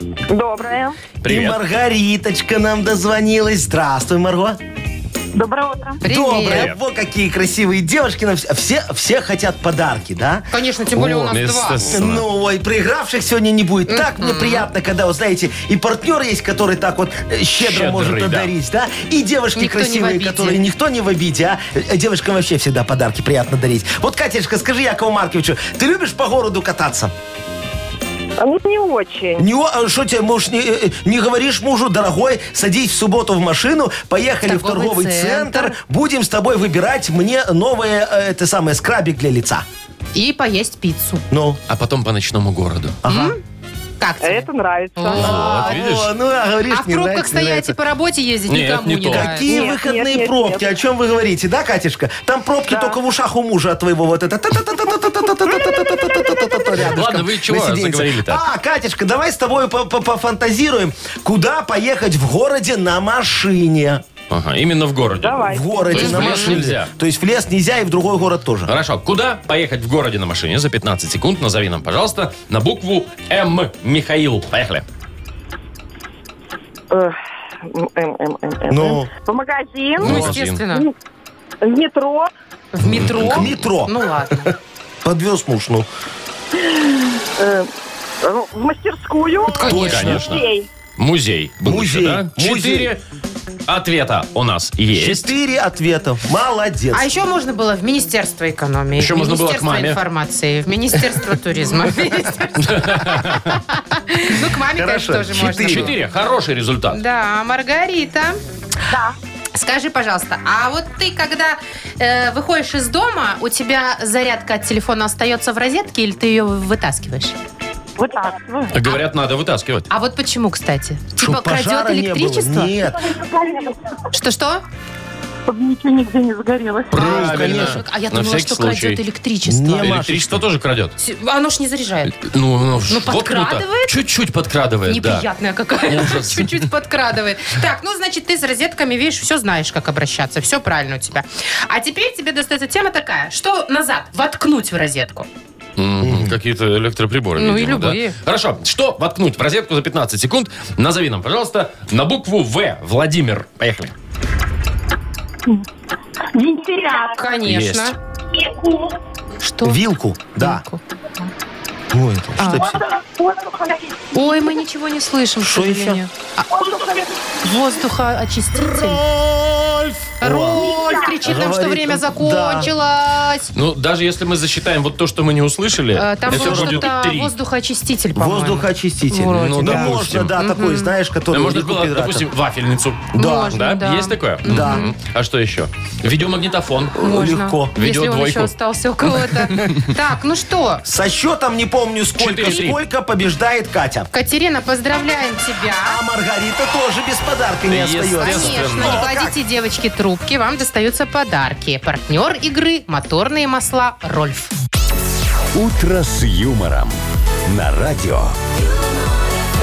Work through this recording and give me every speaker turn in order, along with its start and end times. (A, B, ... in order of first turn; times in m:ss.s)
0:00.3-0:01.0 A
0:01.2-0:01.6 B
0:01.2-0:04.6 C
0:05.3-0:06.0 A
0:06.0-0:06.7 D
0:06.1-0:10.4 C
0:06.4-0:06.8 B
0:10.5-0:11.8 D
0:11.0-0:12.2 B
0:11.9-0:27.1 C
0:13.9-0:14.7 D
0:17.6-0:18.5 B
0:19.6-0:20.6 D
0:28.4-0:29.4 A
0:29.4-0:39.6 C
0:34.4-0:35.8 D
0:40.1-0:41.2 D
0:41.3-0:41.6 C
0:41.7-0:43.0 B
0:43.0-0:43.4 C
0:43.1-0:43.4 D
0:44.0-0:45.7 D
0:44.2-0:45.3 A
0:45.1-0:46.1 B
0:45.2-0:47.7 C
0:46.7-0:49.5 D
0:48.5-0:49.4 B
0:49.1-1:04.0 C
0:49.5-0:50.7 A
0:52.7-0:53.0 A
0:56.8-0:58.4 B
1:04.3-1:06.9 B
1:05.2-1:06.0 A
1:05.4-1:08.7 C
1:05.9-1:06.6 D
1:08.7-1:14.8 B
1:16.9-1:20.9 A
1:18.7-1:19.1 C
1:20.0-1:20.9 D
1:20.0-1:20.6 B
1:20.0-1:20.4 C
1:21.6-1:22.3 A
1:22.7-1:24.5 D
1:22.8-1:24.0 C
1:22.9-1:23.7 B
1:25.0-1:25.9 C
1:26.6-1:27.7 A
1:28.2-1:30.7 A
1:29.6-1:30.4 C
1:29.6-1:30.2 D
1:29.7-1:30.4 B
1:31.0-1:33.0 B
1:31.6-1:32.9 C
1:33.7-1:35.3 B
1:35.0-1:37.1 C
1:36.9-1:45.9 D
1:39.0-1:40.0 B
1:42.6-1:43.6 B
1:44.6-1:45.9 C
1:45.5-1:47.0 B
1:46.9-1:48.4 D
1:48.9-1:49.1 A
1:49.5-1:57.4 D
1:58.0-1:58.8 A
1:58.7-1:59.9 B
1:59.9-2:02.7 D
2:01.2-2:03.2 C
2:03.1-2:03.8 A
2:04.1-2:04.6 D
2:05.4-2:07.2 A
2:06.9-2:09.0 B
2:07.0-2:07.8 C
2:07.0-2:10.0 D
2:09.5-2:10.4 C
2:09.8-2:10.9 B
2:11.0-2:12.2 D
2:12.1-2:15.3 B
2:12.9-2:13.9 D
2:14.9-2:25.3 D
2:15.8-2:16.7 B
2:25.8-2:33.9 B
2:26.0-2:26.3 C
2:27.4-2:28.2 D
2:36.3-2:37.3 A
2:37.0-2:38.0 D
2:37.4-2:37.9 B
2:39.4-2:39.8 D
2:39.6-2:40.6 C
2:40.4-2:40.8 D
2:41.9-2:42.8 C
2:42.4-2:42.8 D
2:43.3-2:43.7 A
2:44.1-2:46.5 D
2:45.4-2:46.0 C
2:47.4-2:49.0 D
2:48.6-2:52.7 C
2:50.2-2:53.5 D
2:53.5-2:57.3 B
2:56.0-3:00.9 D
2:56.3-2:56.9 C
2:58.2-3:02.3 C
2:59.3-3:00.3 B
3:01.3-3:07.0 B
3:03.1-3:03.6 C
3:03.1-3:04.9 D
3:04.4-3:04.9 C
3:07.0-3:07.7 C
3:07.0-3:10.8 D
3:07.8-3:08.5 B
3:09.6-3:09.8 B
3:10.8-3:14.1 C
3:12.2-3:12.8 B
3:14.1-3:16.0 D
3:15.7-3:19.3 C
3:17.7-3:19.0 B
3:18.2-3:24.5 D
3:25.5-3:28.3 E